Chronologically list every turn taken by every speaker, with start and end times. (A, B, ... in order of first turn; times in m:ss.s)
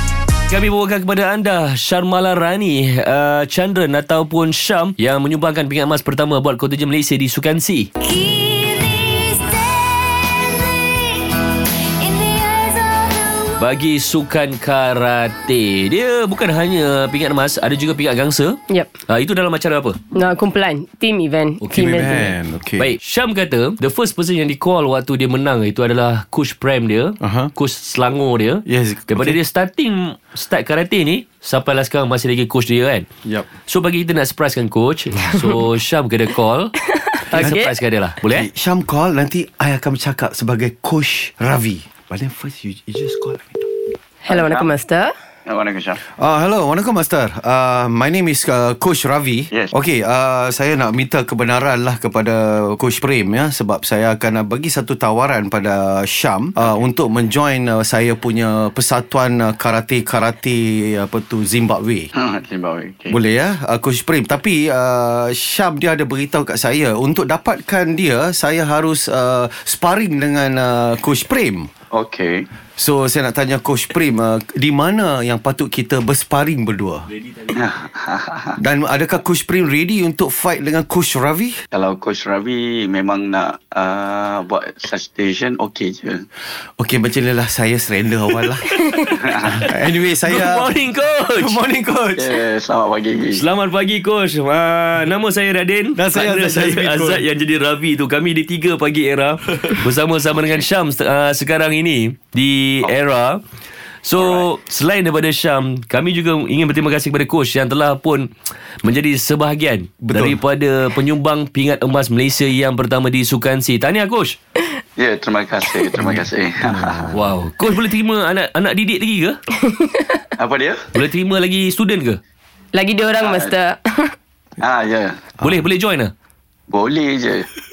0:00.5-0:07.9 A
0:08.0-0:11.2 B
0:12.0-0:13.5 B
0:13.6-0:20.0 A
0:20.1-0:22.3 C
0:21.6-0:22.2 A
0:21.7-0:22.9 D
0:22.8-0:33.1 A
0:27.2-0:27.5 D
0:28.7-0:29.4 D
0:33.7-0:36.7 A
0:37.3-0:38.5 A
0:37.3-0:37.6 D
0:37.3-0:37.7 C
0:38.3-0:43.7 D
0:44.2-0:45.1 C
0:44.3-0:44.7 E
0:45.5-0:46.0 E
0:46.0-1:02.1 D
1:02.2-1:03.2 E
1:03.1-1:11.7 D
1:11.9-1:12.5 E
1:12.8-1:17.1 D
1:17.5-1:18.6 E
1:18.6-1:21.6 D
1:21.7-1:26.3 E
1:26.8-1:28.7 D
1:28.7-1:29.1 A
1:29.2-1:29.7 E
1:29.5-1:30.7 D
1:30.2-1:31.6 A
1:31.4-1:32.4 D
1:32.2-1:33.4 E
1:33.3-1:43.4 A
1:36.0-1:37.2 D
1:44.0-1:48.3 A
1:44.2-1:44.4 E
1:48.8-1:54.4 A
1:50.0-1:50.4 D
1:55.0-1:57.1 E
1:56.0-1:57.3 D
1:57.1-1:59.4 A
1:59.7-2:00.0 C
2:00.4-2:00.9 E
2:00.9-2:02.2 A
2:02.7-2:04.2 C
2:03.2-2:03.5 E
2:04.6-2:05.3 E
2:05.4-2:06.1 A
2:06.7-2:07.5 E